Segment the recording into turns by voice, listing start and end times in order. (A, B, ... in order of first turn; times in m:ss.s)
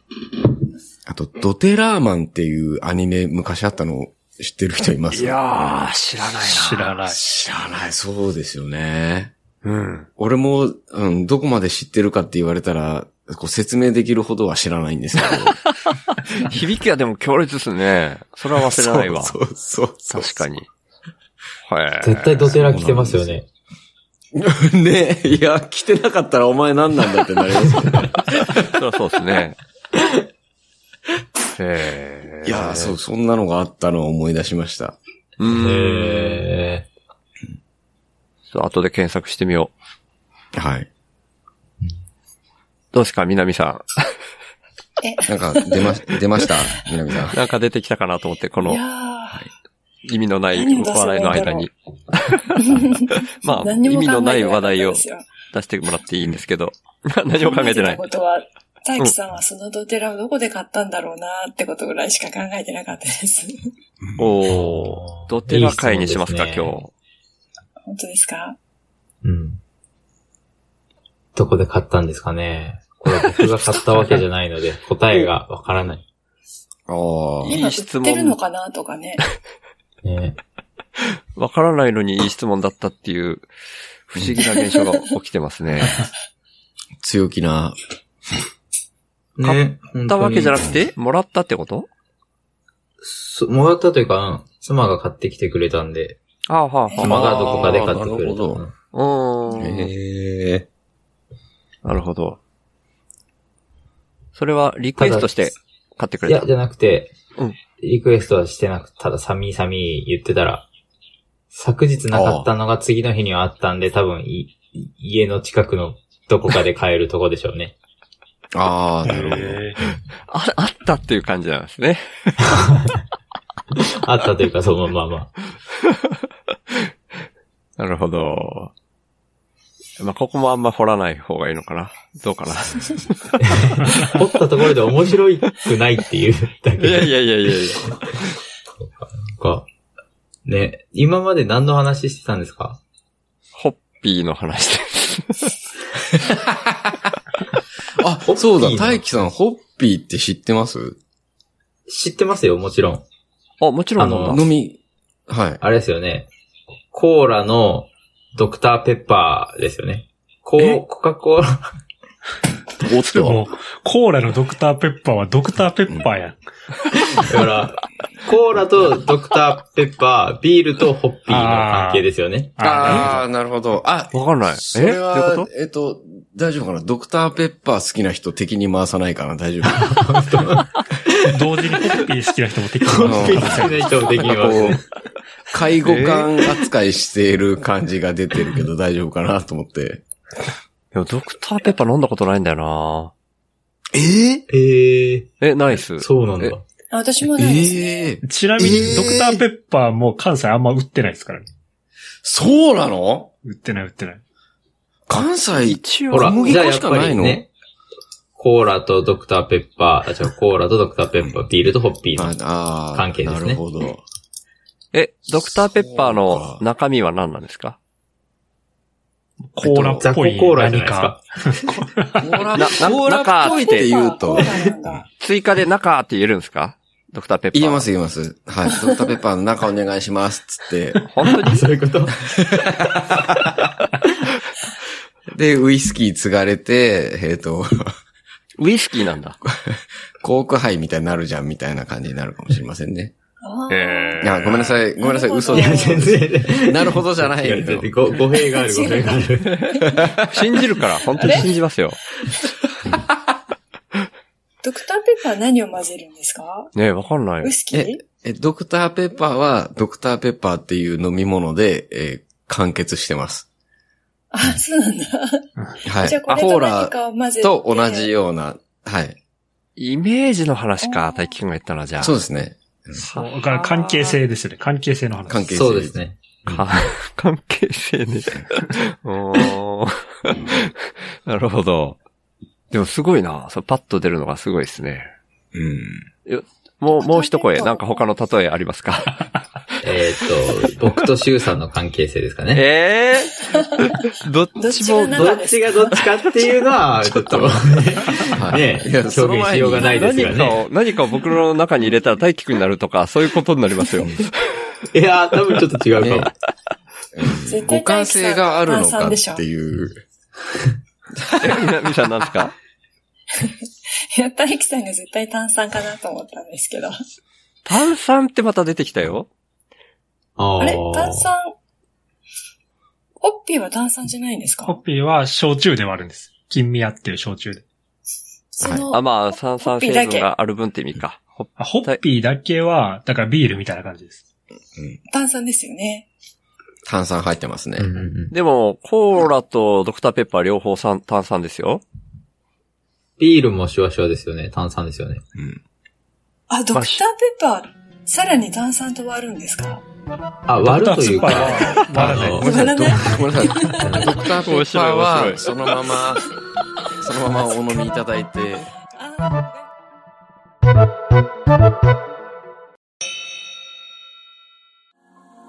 0:01.0-0:05.7 A
0:05.1-0:07.0 B
0:06.4-0:07.2 C
0:07.0-0:09.3 A
0:09.6-0:10.1 B
0:10.2-0:15.6 A
0:15.4-0:19.4 B
0:18.6-0:20.5 A
0:20.1-0:20.7 B
0:21.7-0:22.6 B
0:22.0-0:23.5 D
0:22.5-0:23.4 A
0:24.3-0:28.7 A
0:28.4-0:29.6 B
0:31.6-0:32.9 B
0:32.4-0:35.0 A
0:35.4-0:36.5 B
0:35.5-0:36.9 D
0:38.5-0:39.7 B
0:40.5-0:40.9 A
0:42.9-0:44.0 B
0:45.0-0:46.0 E
0:45.3-0:47.4 A
0:47.3-0:48.8 B
0:48.6-0:49.5 E
0:50.0-0:52.7 B
0:50.5-0:51.7 E
0:52.6-0:55.2 E
0:53.4-0:58.0 B
0:57.4-1:03.7 E
1:04.0-1:04.3 A
1:04.2-1:06.9 B
1:04.5-1:06.8 D
1:07.8-1:08.6 E
1:09.2-1:09.6 D
1:11.3-1:16.0 D
1:13.4-1:14.2 B
1:16.9-1:17.6 A
1:17.4-1:19.2 E
1:17.5-1:18.4 B
1:20.0-1:20.4 D
1:21.4-1:23.5 B
1:24.1-1:26.1 B
1:27.0-1:27.8 A
1:29.4-1:30.7 D
1:29.4-1:31.9 B
1:33.0-1:36.2 D
1:36.5-1:38.0 B
1:36.9-1:38.7 D
1:37.0-1:38.6 A
1:38.9-1:39.9 B
1:39.6-1:40.7 A
1:41.8-1:42.4 B
1:44.4-1:46.5 B
1:45.0-1:45.5 D
1:46.2-1:47.1 D
1:47.8-1:50.7 D
1:51.5-1:57.7 D
1:52.1-1:52.5 A
1:58.5-1:59.6 A
1:59.0-1:59.8 C
2:00.3-2:02.4 B
2:02.6-2:02.9 D
2:03.7-2:05.3 D
2:07.8-2:08.7 B
2:10.0-2:13.1 B
2:13.4-2:18.1 D
2:16.8-2:18.2 B
2:18.8-2:19.7 D
2:20.4-2:22.8 D
2:23.5-2:25.5 B
2:26.3-2:27.0 A
2:27.9-2:31.0 A
2:28.2-2:29.0 D
2:31.9-2:33.0 D
2:33.6-2:34.4 B
2:34.0-2:34.4 D
2:34.2-2:35.6 A
2:35.6-2:36.3 D
2:36.9-2:41.6 D
2:42.8-2:43.5 A
2:43.1-2:46.4 C
2:47.2-2:53.0 D
2:51.3-2:52.0 C
2:52.6-2:53.2 C
2:52.6-3:00.4 A
2:54.1-2:55.5 B
2:59.7-3:01.4 D
3:01.3-3:04.2 C
3:02.8-3:04.8 D
3:03.0-3:04.8 A
3:05.5-3:10.0 A
3:05.8-3:06.3 B
3:10.9-3:13.1 B
3:13.9-3:14.4 A
3:14.5-3:15.3 D
3:15.4-3:16.6 B
3:16.0-3:16.6 D
3:16.9-3:18.1 E
3:17.2-3:19.4 A
3:18.2-3:21.5 C
3:22.2-3:23.3 A
3:23.4-3:24.2 C
3:25.1-3:27.4 A
3:25.6-3:26.7 B
3:26.1-3:27.5 D
3:28.4-3:32.4 D
3:32.1-3:34.0 A
3:32.9-3:33.6 D
3:34.9-3:37.8 B
3:35.3-3:36.6 A
3:39.5-3:42.4 C
3:39.6-3:41.3 D
3:39.6-3:40.0 A
3:42.2-3:45.0 A
3:42.5-3:43.9 B
3:43.5-3:45.0 E
3:45.2-3:47.8 B
3:47.5-3:51.0 A
3:51.1-3:51.7 B
3:51.2-3:52.2 D
3:52.2-3:53.7 A
3:55.3-3:58.0 A
3:58.6-3:59.4 B
3:59.4-4:03.1 A
4:03.4-4:04.3 E
4:03.7-4:04.8 B
4:04.2-4:08.1 A
4:05.0-4:06.1 E
4:05.5-4:09.6 D
4:08.3-4:09.7 E
4:09.4-4:12.0 B
4:09.9-4:10.5 A
4:11.1-4:11.5 E
4:14.6-4:16.7 E
4:16.7-4:17.5 B
4:17.4-4:18.0 E
4:17.7-4:23.4 A
4:24.3-4:28.1 E
4:25.8-4:29.2 A
4:29.8-4:32.2 B
4:30.8-4:31.3 E
4:32.0-4:33.0 A
4:33.0-4:34.2 B
4:33.1-4:35.5 C
4:35.3-4:36.0 A
4:35.5-4:36.9 D
4:36.5-4:42.0 B
4:42.7-4:45.1 B
4:45.5-4:46.0 A
4:46.2-4:49.2 B
4:46.9-4:48.0 E
4:49.8-4:52.6 D
4:52.5-4:55.5 B
4:53.5-4:53.9 E
4:54.6-4:56.3 E
4:55.2-5:00.6 D
4:57.2-4:57.6 A
4:58.3-5:00.3 A
4:59.8-5:04.3 B
5:04.9-5:06.3 D
5:06.0-5:06.3 A
5:07.1-5:10.0 A
5:07.5-5:09.4 E
5:11.2-5:11.5 A
5:11.4-5:12.6 B
5:14.1-5:16.9 E
5:17.6-5:19.3 B
5:20.4-5:21.3 D
5:20.6-5:21.5 E
5:23.2-5:24.8 E
5:24.6-5:27.6 C
5:28.6-5:30.3 E
5:28.6-5:28.9 A
5:28.9-5:32.0 B
5:31.6-5:34.2 C
5:35.1-5:36.1 E
5:36.8-5:38.0 A
5:37.8-5:38.3 D
5:38.3-5:41.8 B
5:43.2-5:45.2 D
5:45.4-5:45.6 A
5:46.5-5:49.8 E
5:46.7-5:47.0 B
5:50.5-5:52.5 D
5:50.6-5:52.5 C
5:52.2-5:56.3 A
5:52.4-5:54.0 E
5:53.8-5:54.1 D
5:54.4-5:55.4 B
5:57.0-5:58.7 A
5:59.0-5:59.7 E